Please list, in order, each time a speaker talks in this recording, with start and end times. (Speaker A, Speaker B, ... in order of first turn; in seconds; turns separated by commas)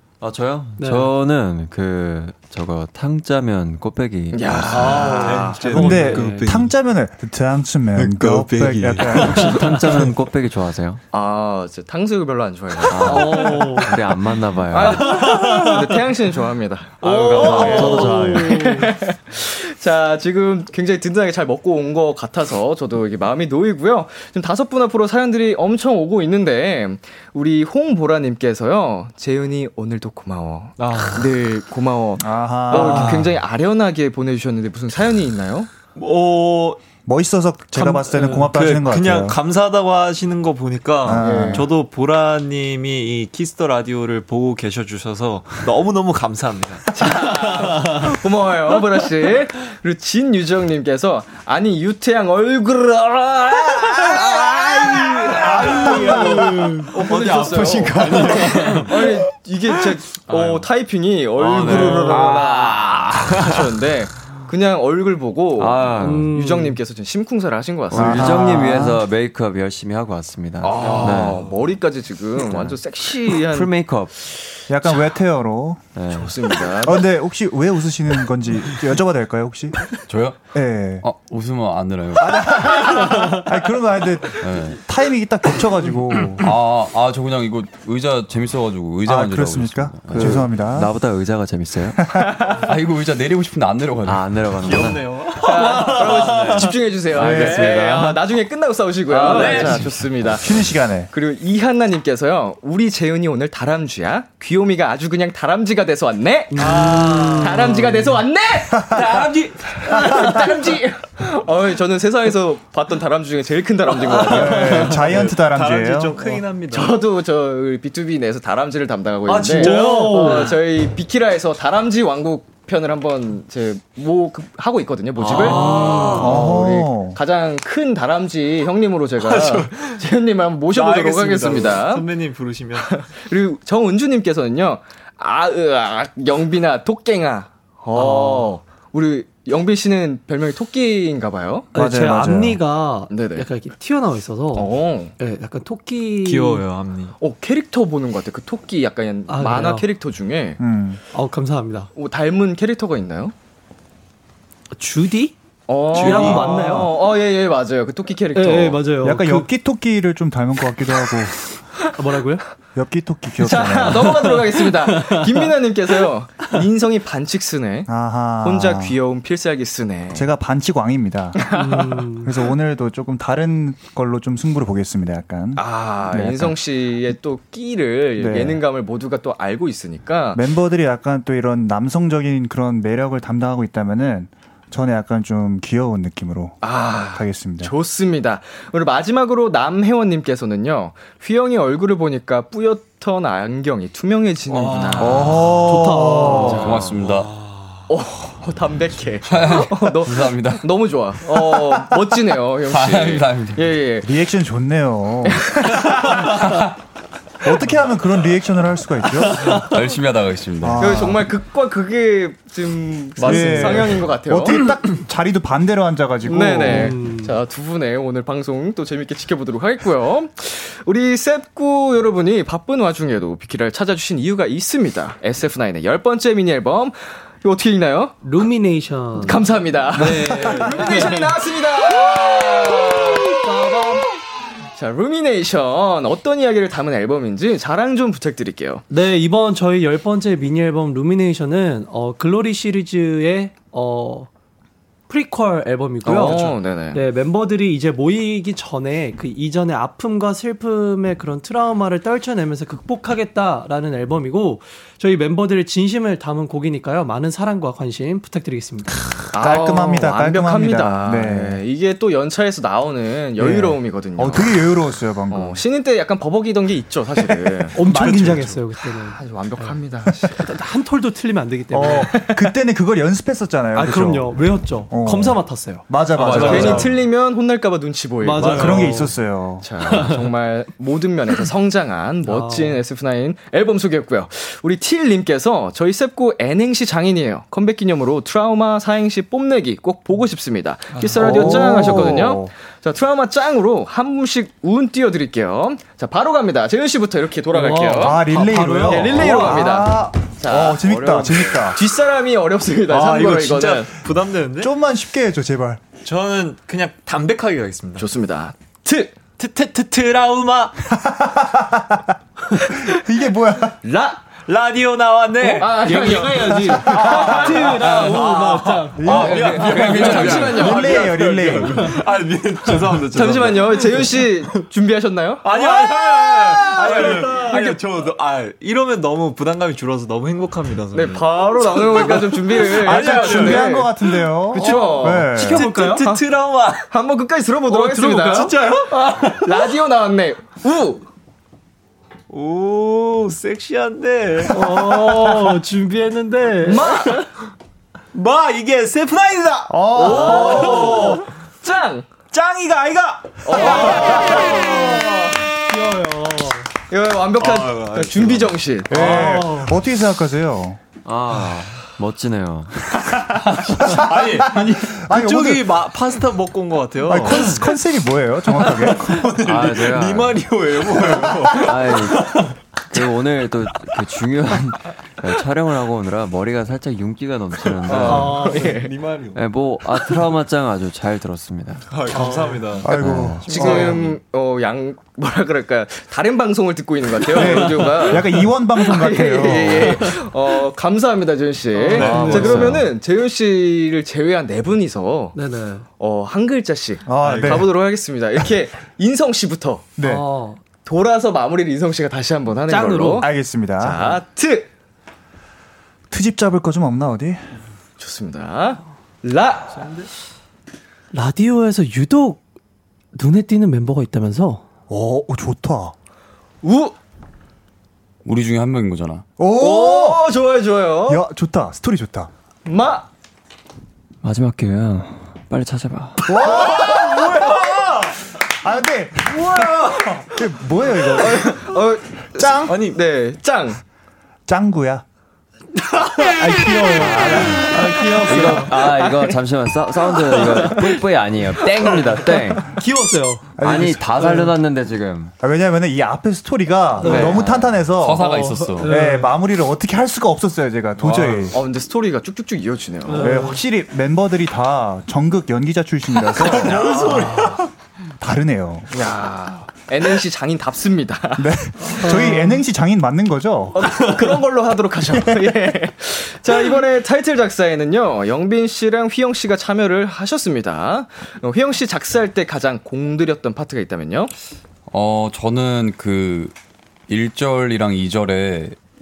Speaker A: 0.2-5.1, Speaker B: 0.8-1.1, Speaker C: 4.3-5.7, Speaker B: 4.7-6.5, Speaker D: 5.0-6.7, Speaker E: 5.7-9.6, Speaker D: 8.0-10.1, Speaker A: 9.0-11.0, Speaker C: 11.1-13.8, Speaker A: 12.9-15.3, Speaker B: 13.0-14.0, Speaker C: 14.7-35.7, Speaker B: 17.0-18.9, Speaker A: 17.0-18.6, Speaker D: 17.4-17.8, Speaker D: 30.8-31.3, Speaker E: 32.2-33.3, Speaker D: 32.7-33.3, Speaker B: 32.7-33.2, Speaker D: 35.9-36.8, Speaker E: 37.0-39.4, Speaker D: 37.8-47.9, Speaker B: 38.0-38.5, Speaker E: 41.0-41.7, Speaker C: 41.1-41.7, Speaker C: 46.9-68.4, Speaker D: 54.0-59.1, Speaker B: 55.8-56.8, Speaker D: 60.3-60.6, Speaker D: 61.4-62.4, Speaker A: 61.6-63.1, Speaker A: 65.6-66.3, Speaker B: 66.0-66.8, Speaker A: 67.9-71.4, Speaker E: 67.9-69.0, Speaker C: 70.6-73.7, Speaker D: 70.8-71.5, Speaker A: 72.4-74.1, Speaker E: 74.7-75.8, Speaker A: 75.9-76.6, Speaker C: 76.1-77.0, Speaker E: 76.8-79.8, Speaker F: 80.1-80.5, Speaker E: 80.5-81.0, Speaker F: 81.0-82.9, Speaker E: 82.2-86.5, Speaker F: 84.4-84.8, Speaker F: 86.4-90.4, Speaker E: 89.0-90.9, Speaker A: 90.1-92.2, Speaker F: 92.5-94.8, Speaker A: 94.0-98.2, Speaker D: 94.6-96.7, Speaker C: 95.4-109.0, Speaker E: 97.1-97.9, Speaker D: 97.3-97.8, Speaker D: 99.1-99.9, Speaker A: 99.2-99.8, Speaker E: 100.3-101.1, Speaker B: 106.5-108.2, Speaker D: 106.6-107.7, Speaker E: 108.7-109.2, Speaker D: 108.9-110.1, Speaker C: 109.8-115.0, Speaker E: 114.2-116.3, Speaker D: 114.2-117.0, Speaker C: 116.7-132.1, Speaker D: 119.2-120.5, Speaker B: 119.5-120.5, Speaker D: 125.2-126.4, Speaker B: 125.3-126.4, Speaker E: 126.2-127.2, Speaker D: 129.2-130.0, Speaker D: 130.7-133.0, Speaker C: 132.9-141.7, Speaker B: 137.9-138.5, Speaker B: 141.7-146.7, Speaker E: 141.7-142.6, Speaker C: 143.1-143.4, Speaker C: 144.5-145.1, Speaker D: 146.2-147.1, Speaker C: 147.2-150.6, Speaker B: 149.3-149.8, Speaker E: 150.6-151.0, Speaker B: 151.1-151.9, Speaker C: 151.9-153.3, Speaker B: 154.7-155.3, Speaker C: 155.7-158.8, Speaker B: 155.9-156.9, Speaker D: 156.0-156.4, Speaker B: 158.3-159.5, Speaker E: 159.0-161.3, Speaker B: 161.9-162.4, Speaker E: 162.7-164.2, Speaker C: 163.4-167.9, Speaker B: 163.6-165.5, Speaker E: 167.9-169.0, Speaker C: 168.4-170.3, Speaker E: 170.1-171.4, Speaker B: 171.5-172.3, Speaker C: 171.5-171.8, Speaker E: 172.2-176.6, Speaker C: 175.6-180.4, Speaker E: 178.2-178.6, Speaker E: 180.3-187.7, Speaker C: 186.6-195.4, Speaker E: 195.0-196.7, Speaker B: 195.5-196.7, Speaker C: 196.4-196.8, Speaker F: 196.5-197.3, Speaker C: 197.9-204.1, Speaker F: 199.2-200.6, Speaker F: 201.3-201.6, Speaker F: 202.7-203.7, Speaker E: 204.0-205.4, Speaker C: 205.3-206.4, Speaker E: 207.4-209.6, Speaker F: 209.5-211.0, Speaker E: 210.6-211.3, Speaker C: 210.8-214.6, Speaker D: 213.2-213.9, Speaker E: 213.2-217.0, Speaker C: 216.2-228.2, Speaker B: 216.5-217.3, Speaker B: 228.2-231.3, Speaker C: 229.2-233.3, Speaker D: 230.2-230.8, Speaker B: 231.9-234.2, Speaker C: 234.7-238.8, Speaker B: 238.9-244.3, Speaker B: 245.1-259.2, Speaker C: 246.0-247.0, Speaker D: 246.1-246.5, Speaker C: 259.3-264.6, Speaker E: 259.4-261.6, Speaker E: 263.4-265.6, Speaker C: 265.3-267.8, Speaker B: 267.7-269.7, Speaker E: 267.8-268.6, Speaker C: 269.1-270.4, Speaker B: 270.2-272.3, Speaker E: 271.7-274.3, Speaker C: 271.8-272.2, Speaker B: 273.7-275.9, Speaker E: 274.9-276.9, Speaker D: 276.1-276.9, Speaker C: 276.2-279.0, Speaker B: 278.2-279.1, Speaker D: 278.4-278.8, Speaker E: 278.4-279.6, Speaker C: 279.6-298.2, Speaker B: 279.8-280.2, Speaker B: 282.2-282.8, Speaker E: 291.2-292.5, Speaker B: 291.2-292.1, Speaker B: 297.5-299.7, Speaker E: 298.0-301.8, Speaker C: 298.9-303.9, Speaker D: 302.9-304.7, Speaker E: 304.6-305.8, Speaker D: 306.0-308.1, Speaker C: 308.0-309.1, Speaker D: 309.4-310.9, Speaker E: 310.9-312.0, Speaker E: 312.7-313.8, Speaker D: 313.9-324.3, Speaker B: 315.5-320.3, Speaker C: 315.5-318.1, Speaker E: 319.0-319.6, Speaker C: 319.0-321.2, Speaker F: 319.9-320.6, Speaker E: 320.2-321.9, Speaker C: 323.1-327.7, Speaker D: 325.4-336.8, Speaker B: 326.6-327.5, Speaker C: 330.9-333.9, Speaker E: 332.7-335.6, Speaker C: 334.5-335.3, Speaker B: 334.6-336.1, Speaker C: 336.8-341.0, Speaker D: 337.7-339.5, Speaker D: 342.3-345.6, Speaker B: 344.5-347.2, Speaker C: 346.6-347.3, Speaker D: 348.1-351.2, Speaker E: 349.7-350.8, Speaker C: 349.9-352.1, Speaker B: 350.0-350.9, Speaker D: 352.3-355.4, Speaker C: 353.4-355.1, Speaker B: 354.0-354.9, Speaker B: 355.6-356.7, Speaker C: 356.9-359.3, Speaker D: 357.4-358.6, Speaker E: 358.9-360.8, Speaker B: 358.9-359.7, Speaker A: 361.0-363.0, Speaker D: 363.3-367.6, Speaker E: 363.9-365.7, Speaker E: 367.1-369.2, Speaker D: 368.5-373.1, Speaker A: 369.4-370.4, Speaker A: 371.4-378.5, Speaker D: 377.8-379.4, Speaker C: 377.9-378.9, Speaker B: 378.0-378.8, Speaker A: 379.3-381.9, Speaker D: 381.9-382.9, Speaker B: 382.1-382.8, Speaker E: 382.8-384.0, Speaker A: 382.9-384.0, Speaker B: 383.5-384.1, Speaker C: 383.5-395.4, Speaker E: 387.3-390.1, Speaker B: 391.7-392.8, Speaker D: 391.9-392.8, Speaker A: 392.1-392.8, Speaker B: 395.3-395.8, Speaker C: 396.0-399.9, Speaker E: 397.1-397.7, Speaker D: 397.2-397.6, Speaker E: 400.0-400.3, Speaker B: 400.0-400.6, Speaker C: 400.8-403.3, Speaker B: 402.7-403.3, Speaker E: 403.2-404.2, Speaker C: 403.8-404.7, Speaker E: 406.1-407.4, Speaker C: 408.0-410.0, Speaker B: 411.1-412.4, Speaker B: 413.1-414.6, Speaker E: 414.9-415.9, Speaker C: 416.6-416.9, Speaker F: 418.2-419.2, Speaker E: 419.4-420.2, Speaker C: 419.6-421.2, Speaker E: 421.1-422.3, Speaker C: 422.6-423.1, Speaker A: 424.2-426.4, Speaker E: 426.2-431.6, Speaker D: 426.4-428.1, Speaker D: 429.3-430.3, Speaker C: 431.2-433.8, Speaker E: 432.4-432.8, Speaker D: 432.7-433.0, Speaker E: 434.5-435.0, Speaker B: 436.1-438.9, Speaker E: 436.4-437.9, Speaker A: 438.2-442.8, Speaker C: 438.3-439.4, Speaker B: 440.5-440.9, Speaker B: 441.9-443.6, Speaker E: 443.6-444.5, Speaker A: 443.6-445.3, Speaker E: 445.4-451.6, Speaker B: 447.0-447.5, Speaker C: 447.0-447.8, Speaker F: 447.9-448.9, Speaker B: 448.2-449.3, Speaker D: 451.0-451.5, Speaker C: 451.5-453.5, Speaker B: 453.0-453.6, Speaker E: 453.1-456.9, Speaker D: 456.2-457.7, Speaker C: 456.6-457.6, Speaker E: 458.2-458.9, Speaker C: 458.9-461.5, Speaker E: 461.4-463.8, Speaker B: 461.9-462.6, Speaker C: 463.7-474.3, Speaker E: 465.1-465.5, Speaker F: 474.9-476.5, Speaker F: 477.1-478.8